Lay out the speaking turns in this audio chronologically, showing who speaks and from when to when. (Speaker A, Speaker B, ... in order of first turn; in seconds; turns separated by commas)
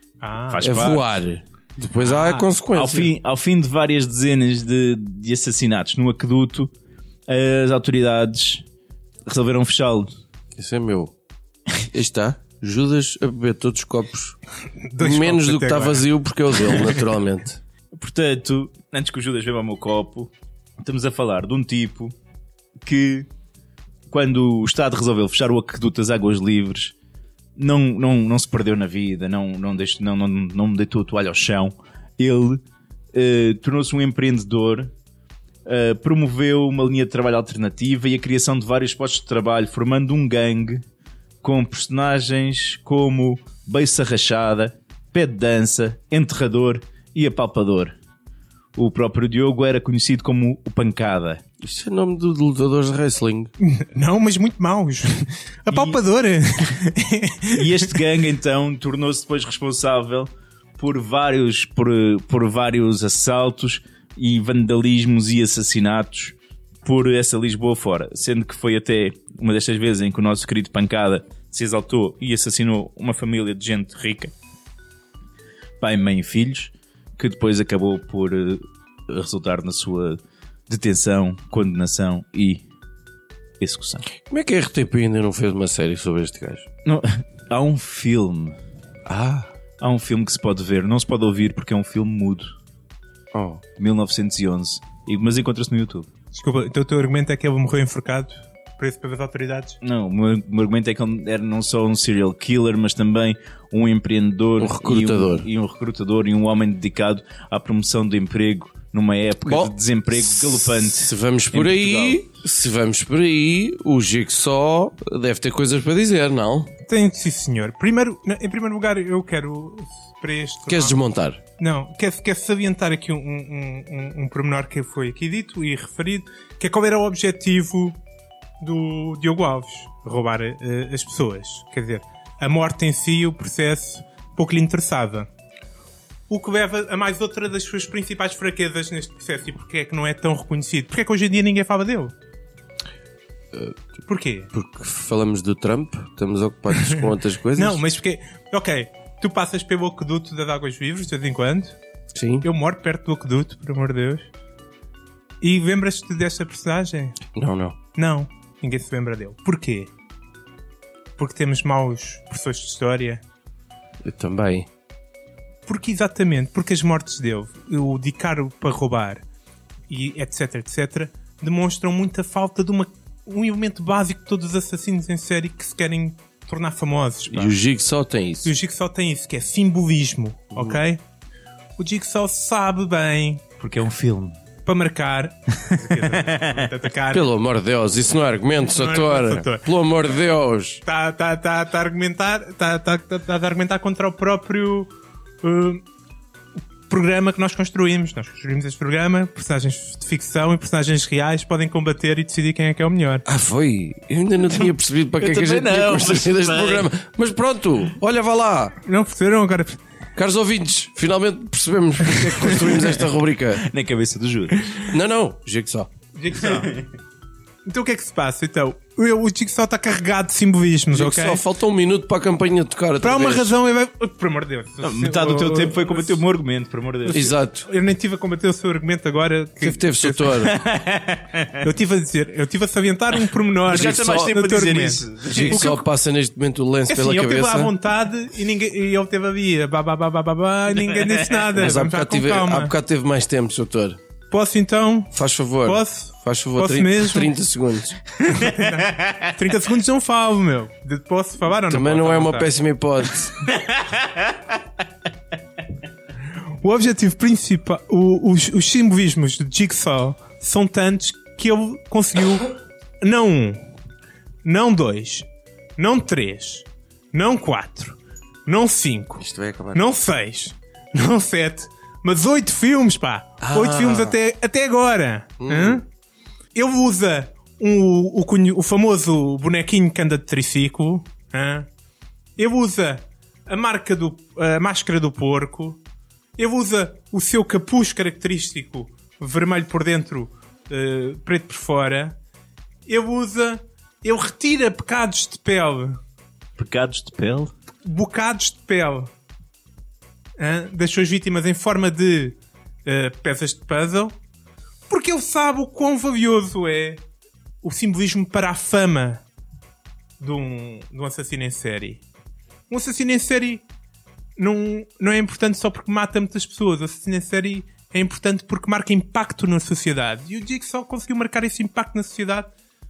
Speaker A: 0.2-0.7, Speaker B: 0.5-1.2, Speaker C: 0.6-3.1, Speaker A: 2.1-2.4, Speaker B: 2.7-6.7, Speaker B: 7.3-8.6, Speaker B: 9.2-10.1, Speaker C: 10.6-11.1, Speaker C: 11.8-14.4, Speaker A: 14.9-16.1, Speaker C: 15.0-17.6, Speaker B: 17.9-20.3, Speaker B: 20.8-22.1, Speaker B: 22.8-23.3, Speaker B: 24.1-26.9, Speaker B: 27.6-32.6, Speaker B: 33.1-34.9, Speaker B: 35.6-40.8, Speaker B: 41.4-47.9, Speaker B: 48.7-51.4, Speaker C: 51.6-53.5, Speaker A: 53.6-57.6, Speaker B: 55.7-56.0, Speaker B: 57.5-74.3, Speaker B: 75.8-82.6, Speaker B: 83.6-84.0, Speaker C: 84.2-86.7, Speaker B: 86.8-88.6, Speaker C: 89.0-89.5, Speaker B: 89.8-92.5, Speaker C: 93.3-93.6, Speaker B: 93.8-96.1, Speaker A: 96.3-99.8, Speaker B: 99.8-112.2, Speaker C: 104.6-105.5, Speaker C: 109.5-109.7, Speaker C: 110.3-116.7, Speaker A: 116.9-121.0, Speaker C: 120.7-121.4, Speaker A: 121.6-128.0, Speaker A: 128.6-135.3, Speaker A: 136.3-142.1, Speaker C: 143.5-143.8, Speaker A: 144.1-144.5, Speaker C: 144.5-147.8, Speaker A: 147.5-151.8, Speaker C: 152.1-152.5, Speaker A: 152.4-154.3, Speaker A: 155.4-157.2, Speaker C: 157.3-157.8, Speaker A: 157.9-159.9, Speaker A: 161.2-163.2, Speaker C: 164.0-164.7, Speaker A: 165.7-169.2, Speaker A: 169.9-177.6, Speaker C: 177.3-178.5, Speaker A: 178.4-181.0, Speaker A: 181.8-183.4, Speaker B: 183.6-184.3, Speaker A: 184.7-187.3, Speaker B: 186.0-186.7, Speaker C: 187.1-190.8, Speaker A: 188.8-189.7, Speaker A: 190.8-195.8, Speaker A: 196.9-203.2, Speaker C: 203.3-208.8, Speaker B: 205.2-206.9, Speaker A: 208.8-209.8, Speaker C: 210.2-213.7, Speaker B: 212.5-212.8, Speaker B: 213.6-214.8, Speaker C: 214.9-215.9, Speaker A: 216.1-216.8, Speaker B: 216.4-216.8, Speaker A: 217.7-221.4, Speaker C: 220.9-223.5, Speaker A: 223.0-226.2, Speaker B: 224.8-227.3, Speaker A: 227.1-230.4, Speaker C: 227.1-227.7, Speaker C: 229.6-230.6, Speaker B: 230.3-231.6, Speaker A: 231.6-235.8, Speaker B: 233.7-235.8, Speaker C: 233.7-234.3, Speaker C: 235.3-237.7, Speaker A: 236.9-242.7, Speaker B: 240.8-241.7, Speaker C: 241.6-244.0, Speaker A: 244.3-247.3, Speaker C: 245.1-248.0, Speaker A: 248.2-252.5, Speaker B: 248.9-249.3, Speaker C: 251.7-253.4, Speaker A: 256.6-262.5, Speaker A: 263.0-263.7, Speaker A: 264.4-275.8, Speaker C: 269.2-269.8, Speaker C: 273.4-274.1, Speaker C: 275.4-275.8, Speaker A: 276.5-281.7, Speaker A: 282.4-285.8, Speaker A: 286.4-292.2, Speaker A: 292.9-296.0, Speaker B: 296.6-297.5, Speaker A: 297.8-299.1, Speaker A: 300.4-304.1, Speaker A: 304.9-307.0, Speaker A: 307.6-309.2, Speaker A: 310.2-312.0, Speaker A: 312.7-313.6, Speaker A: 314.4-322.5